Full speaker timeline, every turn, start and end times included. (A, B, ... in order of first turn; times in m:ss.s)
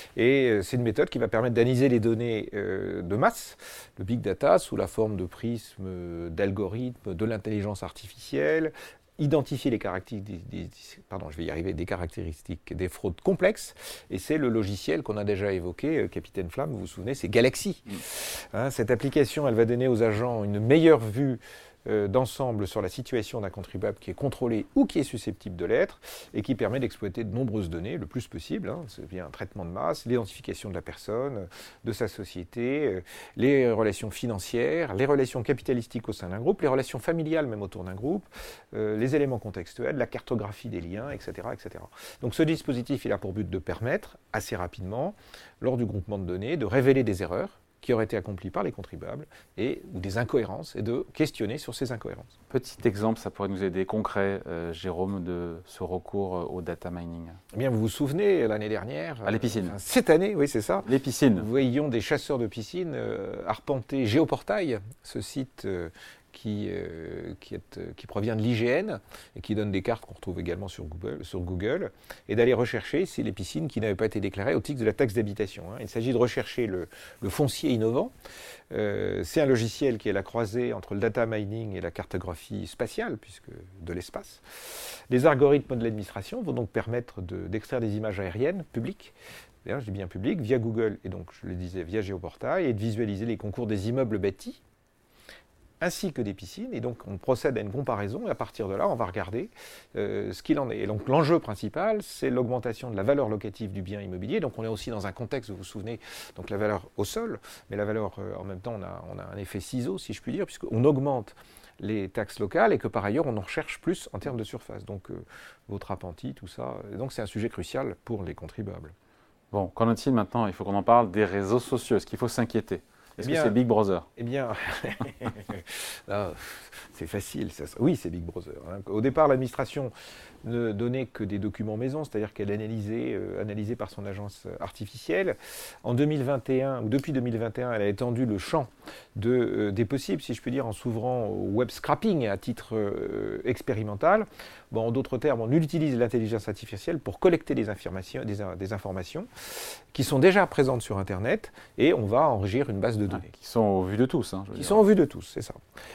0:00.2-0:52.3 A
0:52.5-0:57.4 B
0:57.5-1:18.1 A
0:59.2-0:59.8 B
1:00.8-1:01.4 B
1:18.7-1:29.1 A
1:29.6-1:34.6 A
1:35.8-1:58.9 A
1:59.5-2:04.0 B
2:03.2-2:03.6 A
2:04.2-2:09.9 A
2:10.4-2:29.3 A
2:29.9-2:33.3 A
2:33.1-2:34.8 B
2:34.6-2:35.6 A